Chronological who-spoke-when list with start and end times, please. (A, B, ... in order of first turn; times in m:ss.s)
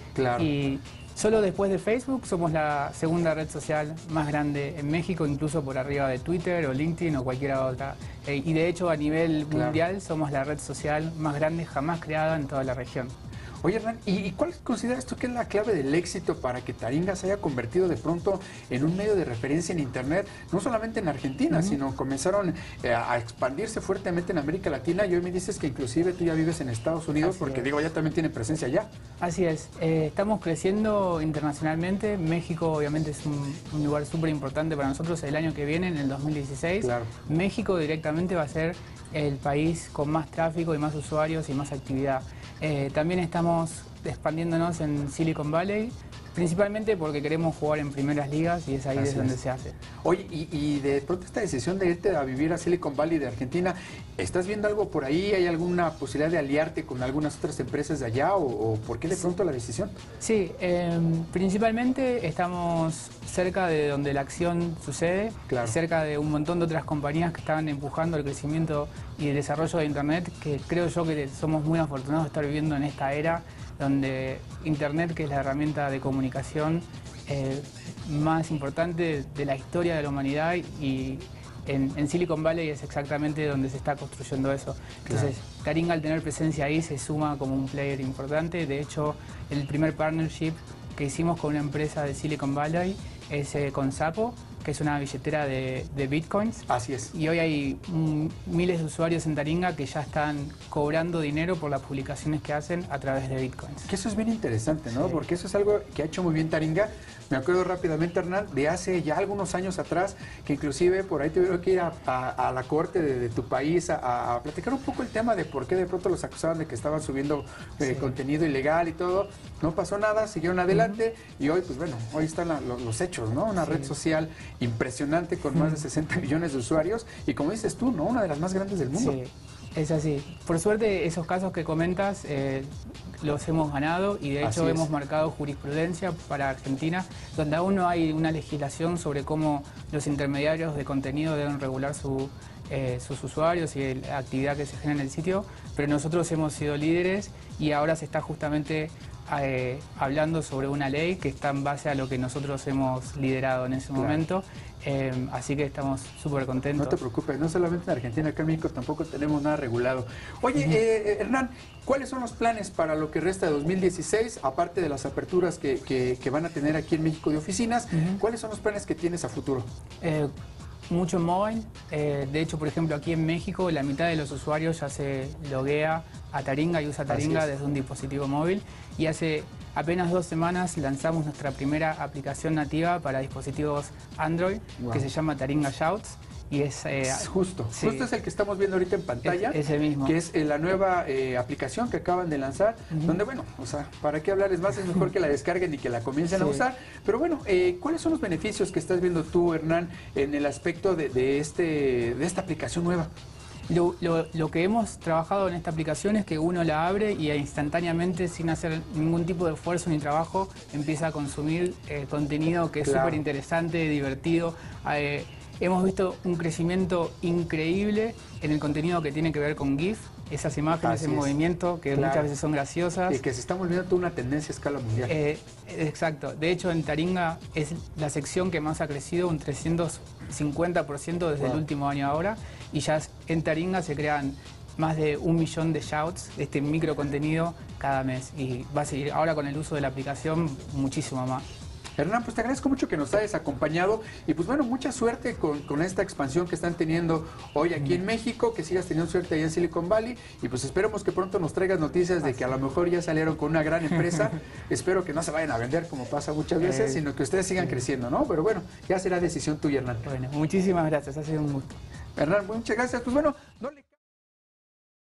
0:00.1-0:00.5 A
0:00.4-0:13.1 B
0:09.5-0:09.8 A
0:13.6-0:28.9 A
0:21.5-0:21.8 B
0:27.2-0:27.7 B
0:29.2-0:49.8 B
0:36.8-0:37.1 A
0:48.9-0:49.4 A
0:50.0-1:00.0 A
1:00.2-1:43.9 B
1:05.5-1:05.8 A
1:25.0-1:25.3 A
1:36.7-1:37.1 A
1:43.9-2:09.2 A
1:44.9-1:45.2 B
1:57.8-1:58.1 B
2:00.7-2:01.0 B
2:03.6-2:03.9 B
2:05.5-2:05.8 B
2:08.9-2:37.0 B
2:14.4-2:14.9 A
2:33.9-2:34.2 A
2:36.8-2:49.7 A
2:50.0-2:50.3 B
2:50.9-3:08.1 B
2:57.1-2:57.5 A
3:04.8-3:05.0 A
3:07.0-3:23.1 A
3:09.2-3:10.2 B
3:12.9-3:13.2 B
3:16.3-3:16.6 B
3:23.7-3:43.2 B
3:32.8-3:33.2 A
3:40.8-3:41.3 A
3:41.9-3:42.3 A
3:43.1-3:45.2 A
3:45.0-4:01.4 B
4:02.0-4:20.1 A
4:14.0-4:14.3 B
4:16.6-4:17.0 B
4:20.0-4:21.8 B
4:22.2-4:23.9 A